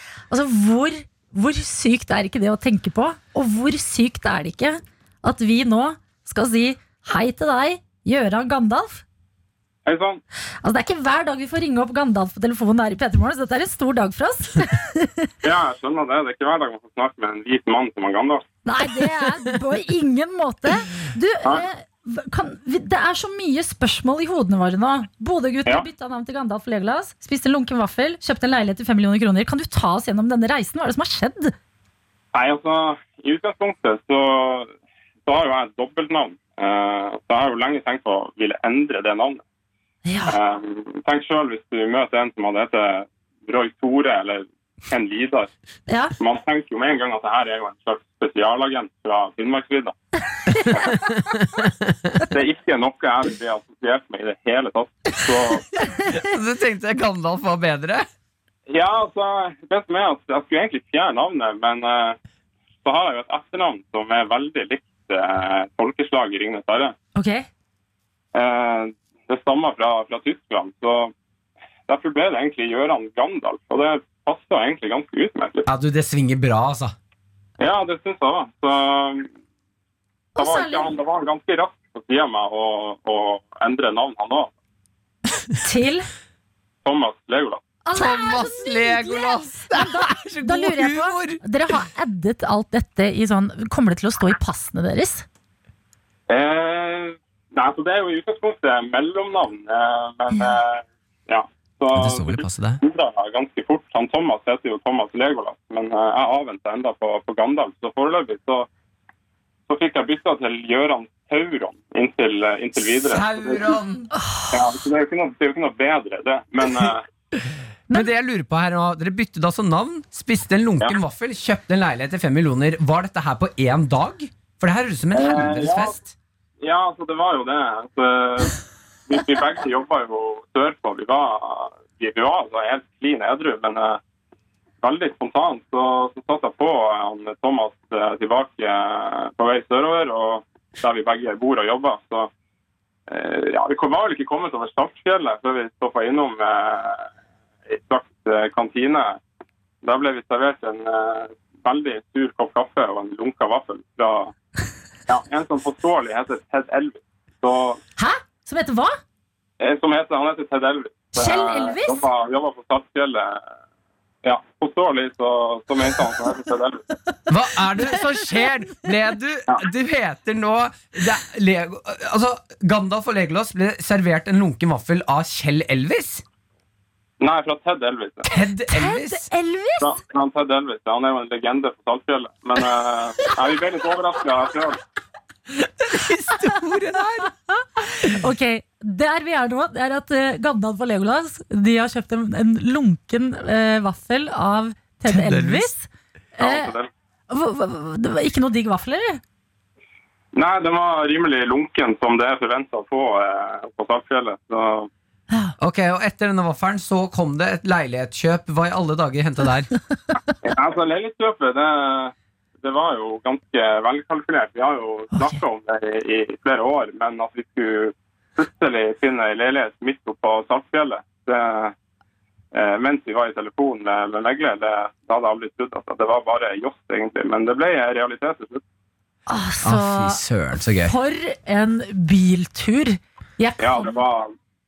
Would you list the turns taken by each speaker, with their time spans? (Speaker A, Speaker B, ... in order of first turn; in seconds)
Speaker A: 0.3-9.0, 10.6-15.3, 18.7-31.5, 40.1-40.4, 45.9-46.1, 50.5-51.1, 67.2-67.5, 80.4-81.0, 85.6-86.1, 87.8-95.3, 114.2-114.5, 158.0-159.0, 161.1-162.0, 178.7-180.0, 187.5-196.8, 197.3-199.2, 229.3-230.2, 230.8-233.9
Speaker B: 9.9-10.2, 15.4-18.5, 32.3-34.7, 35.3-39.4, 40.3-45.5, 46.2-50.0, 52.3-55.6, 58.7-62.2, 62.8-67.0, 68.3-71.1, 71.9-75.7, 77.6-79.3, 80.4-84.5, 86.8-87.6, 96.3-108.7, 109.7-113.8, 114.5-117.0, 125.1-126.0, 126.6-128.6, 129.1-134.0, 134.8-142.3, 143.1-147.1, 147.7-149.2, 149.8-154.3, 155.1-157.8, 159.6-163.4, 164.2-166.8, 177.2-178.3, 179.8-184.8, 196.4-196.9, 200.3-204.9, 210.4-221.8, 222.5-228.6, 233.6-234.3
Speaker C: 50.9-52.2, 56.0-58.1, 75.7-76.9, 87.9-91.4, 102.0-102.8, 112.8-114.1, 117.4-126.1, 167.3-176.2, 178.2-179.3, 185.5-187.3, 195.1-195.7, 205.6-209.7, 229.6-230.9